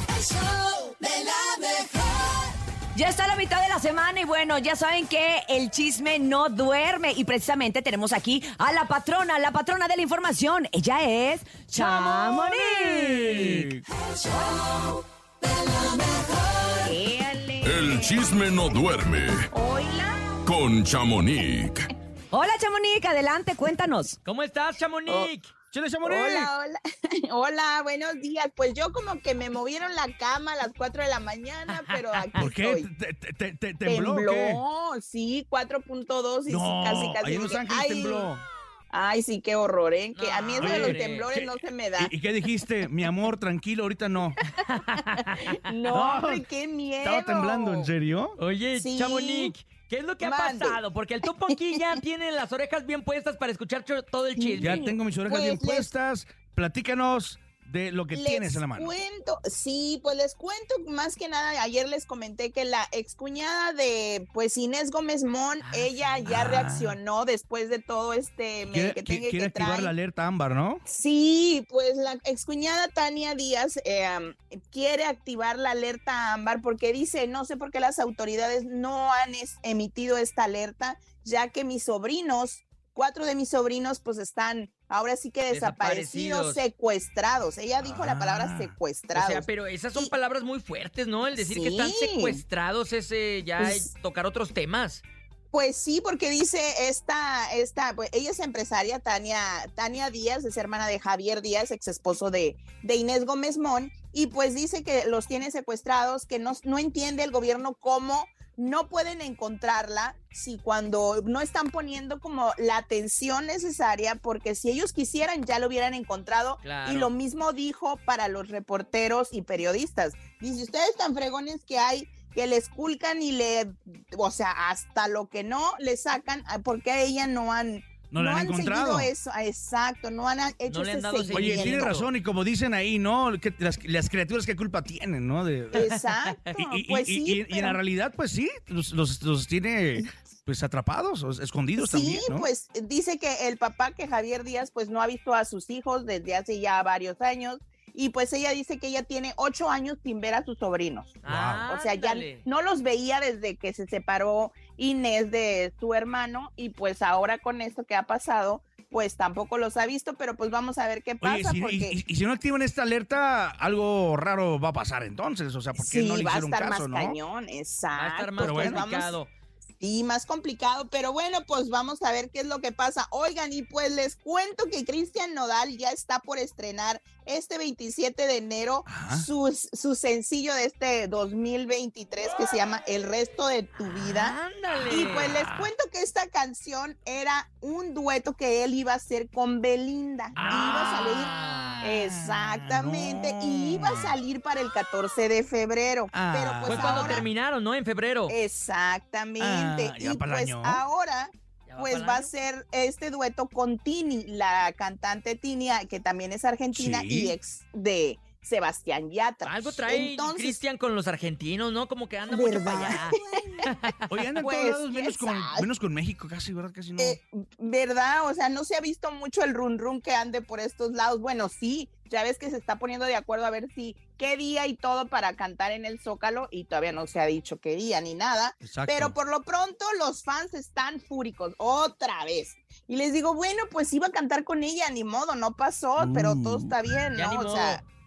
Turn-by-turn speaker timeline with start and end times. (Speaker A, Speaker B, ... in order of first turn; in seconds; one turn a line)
Speaker A: 0.2-16.9
Speaker B: 16.8-18.3
Speaker C: 17.6-19.5
Speaker B: 19.5-20.4
Speaker C: 20.4-21.9
Speaker A: 22.3-24.2
Speaker D: 24.2-25.5
Speaker E: 25.7-26.5
Speaker B: 26.0-32.9
Speaker D: 31.7-32.4
Speaker E: 32.4-34.6
Speaker B: 33.8-38.3
Speaker E: 36.5-38.4
Speaker B: 38.9-42.1
Speaker D: 40.1-41.3
Speaker E: 40.6-44.4
Speaker D: 44.6-45.6
Speaker B: 45.5-47.9
Speaker E: 45.9-46.5
Speaker E: 47.0-48.4
Speaker D: 48.4-54.9
Speaker B: 48.7-49.5
Speaker B: 50.2-50.8
Speaker B: 54.4-55.9
Speaker E: 54.6-59.0
Speaker B: 58.1-69.9
Speaker D: 65.6-66.3
Speaker E: 66.2-67.0
Speaker E: 68.6-70.8
Speaker B: 70.8-90.1
Speaker D: 85.5-86.6
Speaker E: 87.8-88.7
Speaker D: 89.1-95.0
Speaker B: 91.3-92.4
Speaker B: 93.6-93.9
Speaker B: 95.5-132.0
Speaker D: 116.6-117.1
Speaker E: 128.1-129.1
Speaker D: 130.7-132.1
Speaker E: 131.3-135.9
Speaker B: 135.8-137.8
Speaker D: 135.8-136.3
Speaker E: 136.6-142.5
Speaker B: 141.8-151.1
Speaker D: 151.2-152.4
Speaker E: 151.2-151.6
Speaker B: 151.7-162.0
Speaker E: 161.2-167.2
Speaker B: 165.7-169.2
Speaker D: 167.9-169.3
Speaker E: 168.4-168.8
Speaker B: 169.8-184.3
Speaker E: 178.9-179.3
Speaker D: 184.0-185.7
Speaker B: 184.9-197.2
Speaker D: 190.3-191.9
Speaker E: 190.3-194.2
Speaker E: 196.1-197.2
Speaker D: 196.7-198.3
Speaker B: 198.3-210.6
Speaker E: 199.4-200.8
Speaker D: 201.7-202.3
Speaker E: 206.7-207.3
Speaker D: 209.4-214.2
Speaker B: 212.3-213.6
Speaker E: 214.1-217.2
Speaker B: 214.4-215.7
Speaker B: 217.0-237.8
Speaker E: 228.6-229.2
Speaker E: 236.0-237.0
Speaker D: 237.1-237.8